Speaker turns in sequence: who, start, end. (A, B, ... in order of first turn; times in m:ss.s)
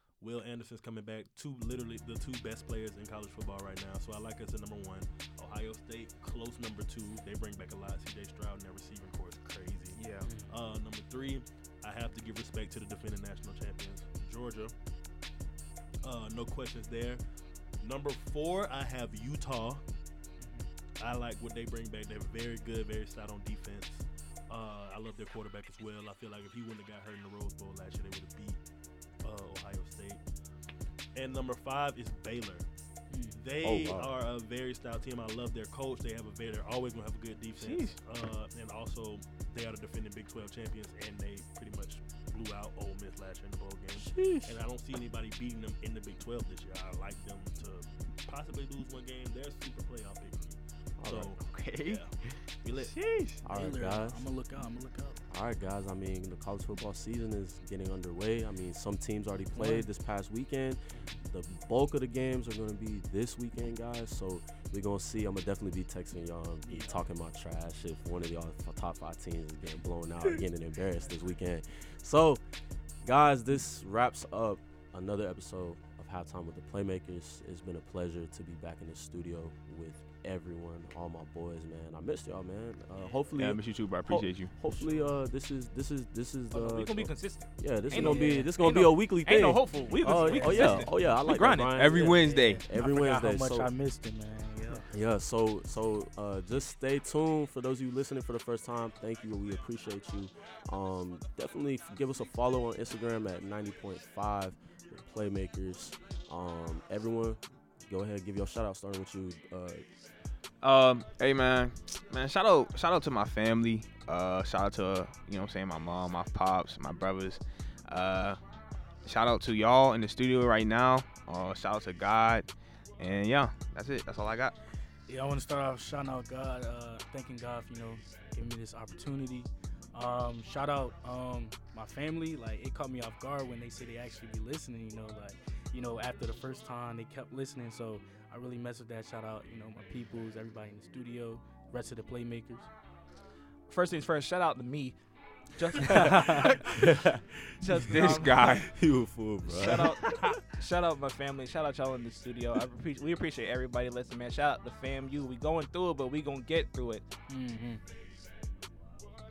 0:00.2-0:14.7 A
0:10.0-0:10.3 B
0:10.2-0:10.6 C
0:16.0-0:17.2 A
0:17.8-0:19.8 A
0:20.4-0:20.7 C
0:21.0-0:28.6 A
0:29.2-0:30.2 A
0:31.2-0:32.7 A
0:33.1-0:33.4 C
0:33.3-0:53.0 A
0:33.6-0:34.1 D
0:37.6-0:38.0 B
0:44.0-0:44.6 C
0:51.0-0:51.3 D
0:51.4-0:53.4 B
0:53.4-0:54.3 D
0:53.5-0:55.2 C
0:55.3-1:12.4 D
0:59.5-0:59.9 C
1:06.7-1:07.0 A
1:13.0-1:33.7 D
1:23.4-1:24.5 B
1:26.5-1:32.6 E
1:27.9-1:28.5 C
1:30.1-1:30.9 C
1:31.7-1:32.6 B
1:32.7-1:34.9 C
1:34.9-1:49.8 D
1:50.6-1:58.4 B
1:59.0-2:02.5 B
2:03.0-2:04.5 B
2:05.1-2:22.7 C
2:23.7-2:25.0 E
2:25.5-2:27.1 E
2:26.1-2:26.5 C
2:26.8-2:27.2 D
2:27.6-2:28.6 E
2:27.8-2:28.7 B
2:28.6-2:30.0 D
2:29.5-2:37.0 E
2:30.1-2:30.4 B
2:37.3-2:37.8 C